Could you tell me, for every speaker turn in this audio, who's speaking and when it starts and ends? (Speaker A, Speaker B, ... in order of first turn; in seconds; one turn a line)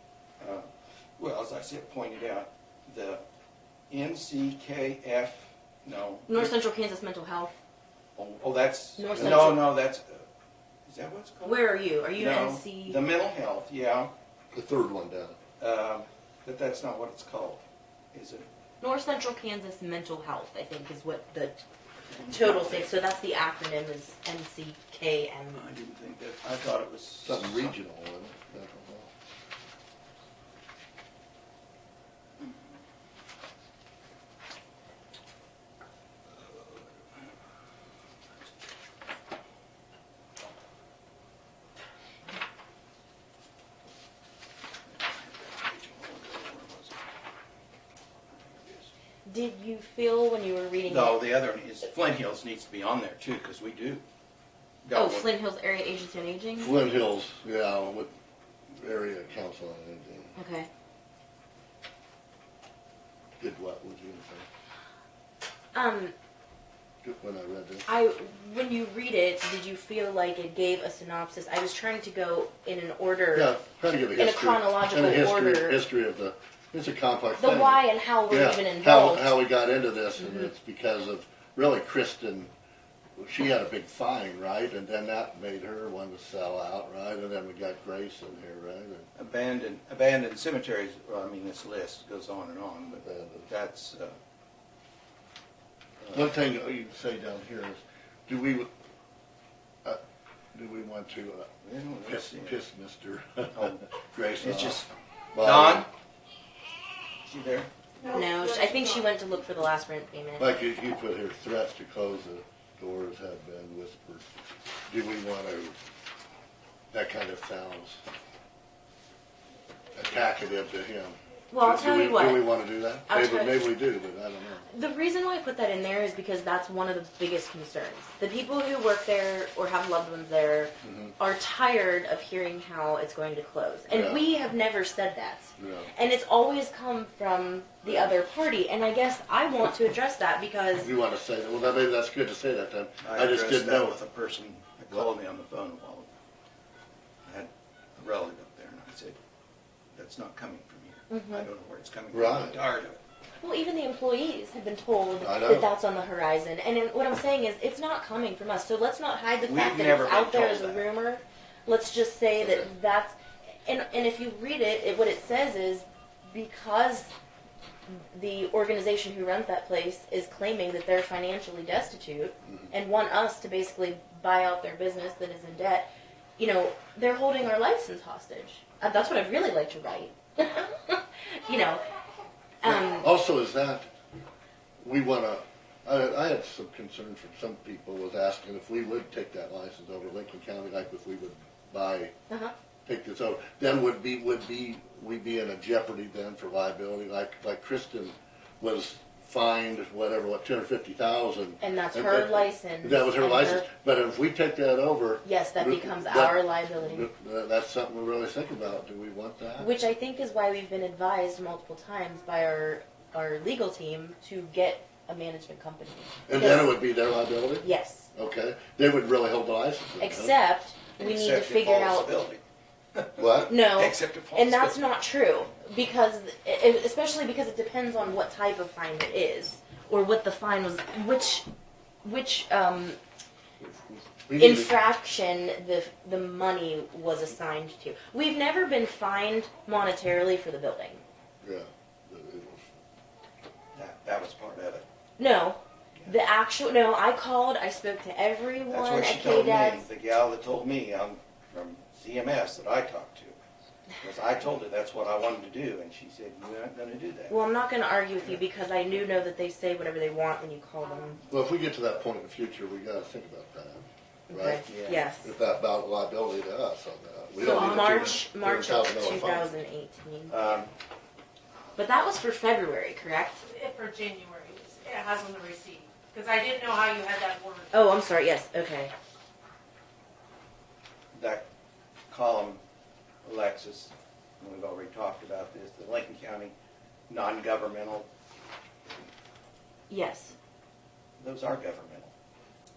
Speaker A: 0.4-0.7
Speaker A: 1.2-3.2
Speaker A: 3.9-6.5
Speaker B: 6.3-7.5
Speaker A: 8.2-10.2
Speaker B: 9.0-9.7
Speaker C: 9.2-9.5
Speaker A: 10.9-14.1
Speaker B: 11.4-13.0
Speaker C: 14.5-15.3
Speaker A: 15.6-17.6
Speaker A: 18.1-18.5
Speaker B: 18.8-21.6
Speaker A: 22.1-22.9
Speaker B: 22.3-25.6
Speaker A: 25.5-27.7
Speaker C: 27.2-29.1
Speaker A: 45.0-47.0
Speaker A: 48.3-48.9
Speaker B: 49.2-51.2
Speaker A: 50.9-54.0
Speaker A: 54.8-55.3
Speaker B: 54.9-56.8
Speaker C: 56.6-58.1
Speaker C: 58.7-60.3
Speaker B: 60.4-60.7
Speaker C: 63.4-64.5
Speaker B: 65.7-66.1
Speaker C: 67.0-67.9
Speaker B: 67.9-73.5
Speaker C: 73.3-82.5
Speaker B: 74.2-75.8
Speaker B: 77.4-79.4
Speaker B: 80.2-80.5
Speaker C: 83.2-89.1
Speaker A: 89.2-94.2
Speaker C: 93.0-93.5
Speaker C: 96.1-98.7
Speaker C: 100.5-101.5
Speaker A: 101.6-102.6
Speaker C: 102.0-105.8
Speaker A: 103.5-103.8
Speaker A: 104.4-104.9
Speaker A: 105.4-105.9
Speaker A: 107.2-107.7
Speaker D: 108.0-109.0
Speaker B: 108.1-110.5
Speaker C: 110.4-114.3
Speaker C: 114.9-115.7
Speaker C: 116.9-118.0
Speaker C: 119.9-124.6
Speaker B: 121.5-122.6
Speaker B: 123.1-123.7
Speaker B: 124.7-140.9
Speaker C: 130.8-131.1
Speaker C: 133.9-134.2
Speaker C: 135.6-135.9
Speaker C: 137.8-138.2
Speaker C: 140.8-144.0
Speaker A: 143.0-146.1
Speaker A: 147.2-149.2
Speaker A: 149.9-153.0
Speaker B: 151.1-151.5
Speaker C: 152.1-152.6
Speaker B: 153.4-167.1
Speaker C: 155.2-155.7
Speaker A: 159.4-160.9
Speaker C: 162.4-162.7
Speaker B: 167.9-181.8
Speaker C: 172.4-172.7
Speaker B: 182.6-183.1
Speaker C: 182.6-183.9
Speaker C: 184.8-192.1
Speaker C: 192.8-209.7
Speaker B: 201.6-203.7
Speaker B: 205.2-207.1
Speaker B: 209.6-216.8
Speaker C: 216.3-220.3
Speaker B: 217.6-218.1
Speaker B: 220.0-222.1
Speaker A: 221.0-222.4
Speaker A: 222.9-224.8
Speaker C: 223.2-223.6
Speaker B: 223.5-231.4
Speaker B: 232.0-233.0
Speaker C: 233.6-234.7
Speaker B: 234.4-241.0
Speaker C: 241.4-242.7
Speaker A: 243.7-244.8
Speaker B: 245.2-249.9
Speaker A: 248.7-253.4
Speaker A: 254.0-257.4
Speaker B: 257.3-261.2
Speaker C: 261.3-264.7
Speaker B: 264.3-265.3
Speaker A: 264.6-265.1
Speaker C: 265.2-269.5
Speaker B: 267.4-270.6
Speaker D: 267.5-268.2
Speaker A: 270.3-270.7
Speaker B: 271.8-273.4
Speaker D: 273.4-277.7
Speaker B: 277.7-278.9
Speaker A: 281.1-281.4
Speaker A: 282.1-282.6
Speaker A: 283.2-286.5
Speaker A: 287.1-288.1
Speaker B: 289.9-290.3
Speaker A: 291.2-292.1